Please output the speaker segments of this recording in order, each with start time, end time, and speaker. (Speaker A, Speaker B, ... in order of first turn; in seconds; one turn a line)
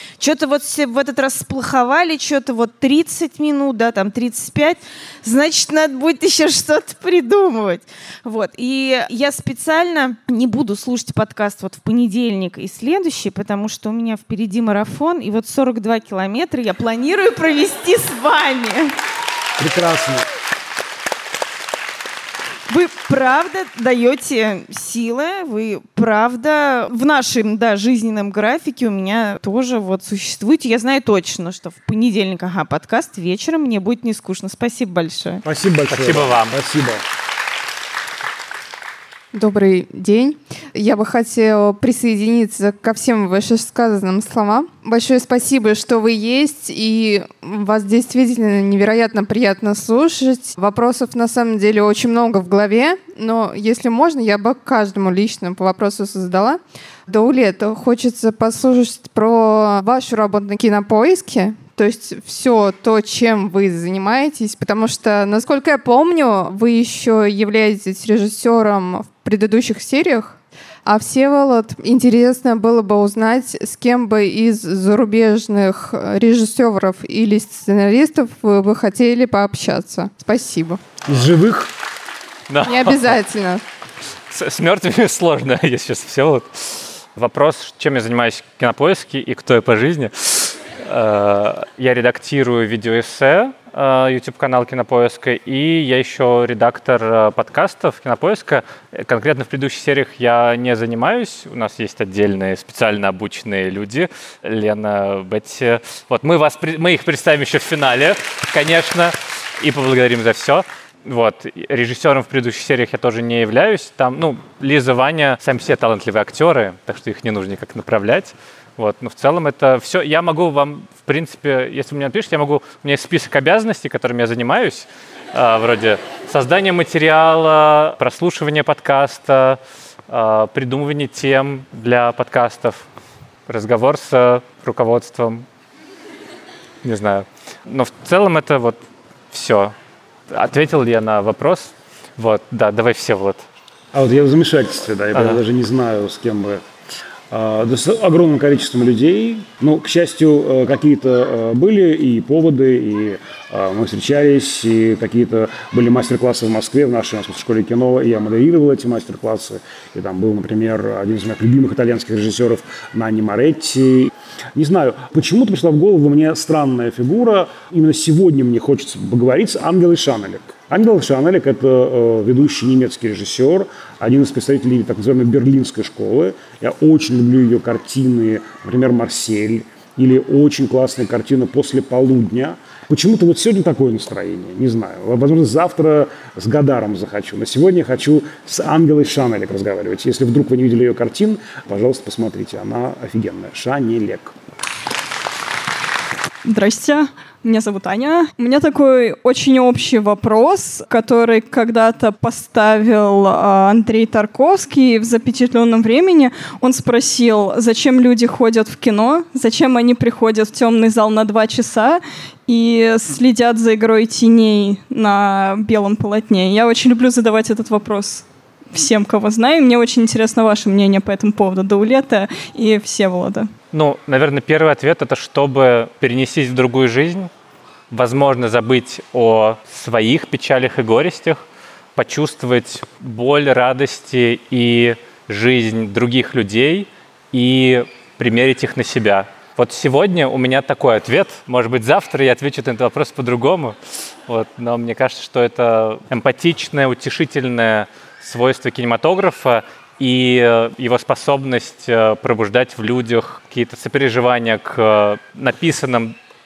Speaker A: 0.2-18.9
Speaker B: 19.6-20.3
Speaker A: 22.7-35.4
Speaker B: 35.4-37.0
Speaker C: 35.9-36.5
Speaker D: 39.3-80.8
Speaker B: 81.0-81.7
Speaker C: 82.5-83.0
Speaker D: 82.7-83.6
Speaker C: 84.3-129.6
Speaker C: 130.1-132.9
Speaker C: 133.5-135.4
Speaker C: 136.8-138.8
Speaker C: 139.3-139.7
Speaker C: 140.3-143.4
Speaker B: 143.9-146.6
Speaker C: 145.1-145.4
Speaker B: 147.3-194.3
Speaker E: 196.4-223.5
Speaker C: 223.7-227.3
Speaker C: 227.9-231.4
Speaker C: 231.9-256.1